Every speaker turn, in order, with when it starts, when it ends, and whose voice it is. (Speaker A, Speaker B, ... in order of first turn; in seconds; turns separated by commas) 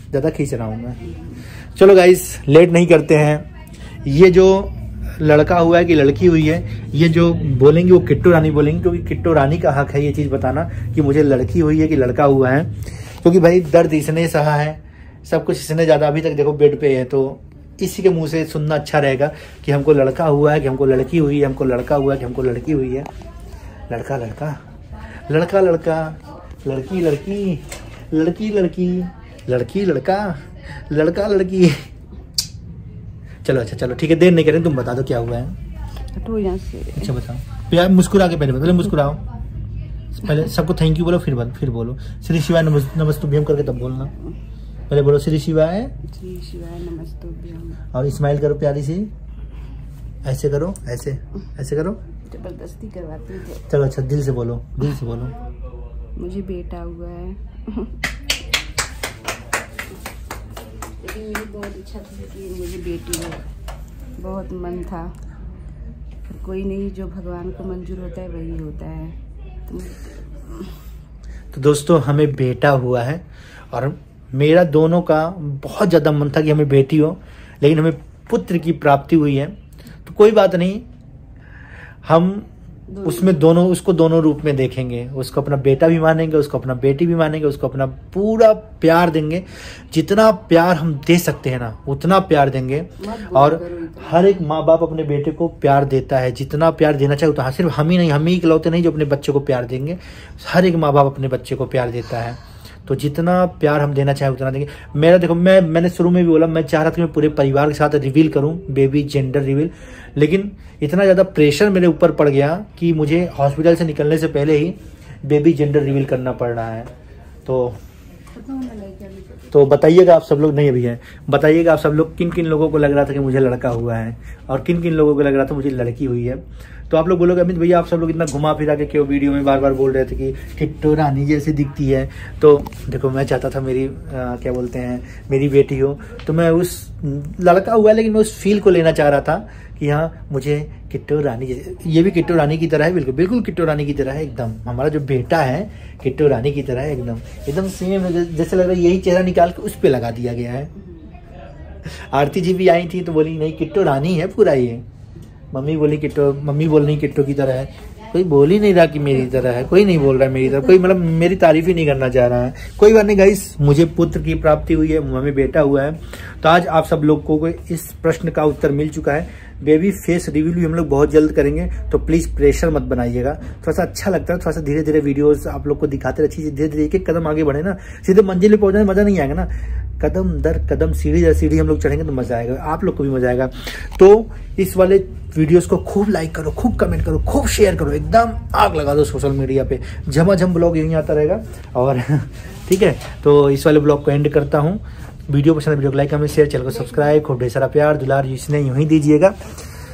Speaker A: 0.1-1.0, Speaker B: 1.0-1.4, Speaker A: 1.6-3.5, Speaker A: 4.0-23.1, Speaker A: 23.9-24.6, Speaker A: 25.2-31.9, Speaker A: 33.4-35.6, Speaker B: 36.1-37.1, Speaker A: 37.0-39.2, Speaker A: 40.1-44.1, Speaker A: 44.9-46.0, Speaker B: 46.1-47.8, Speaker A: 47.9-49.1, Speaker A: 50.2-52.0, Speaker B: 52.2-53.7, Speaker A: 53.7-55.4, Speaker B: 56.2-58.0, Speaker B: 61.0-63.5, Speaker B: 64.2-65.2, Speaker B: 66.3-70.8, Speaker A: 71.5-80.9, Speaker A: 82.0-82.5, Speaker B: 82.9-83.4, Speaker A: 83.0-116.9, Speaker B: 93.0-94.4, Speaker A: 117.5-117.8, Speaker B: 118.3-119.6, Speaker A: 119.5-150.7, Speaker A: 151.8-154.8, Speaker A: 155.5-199.5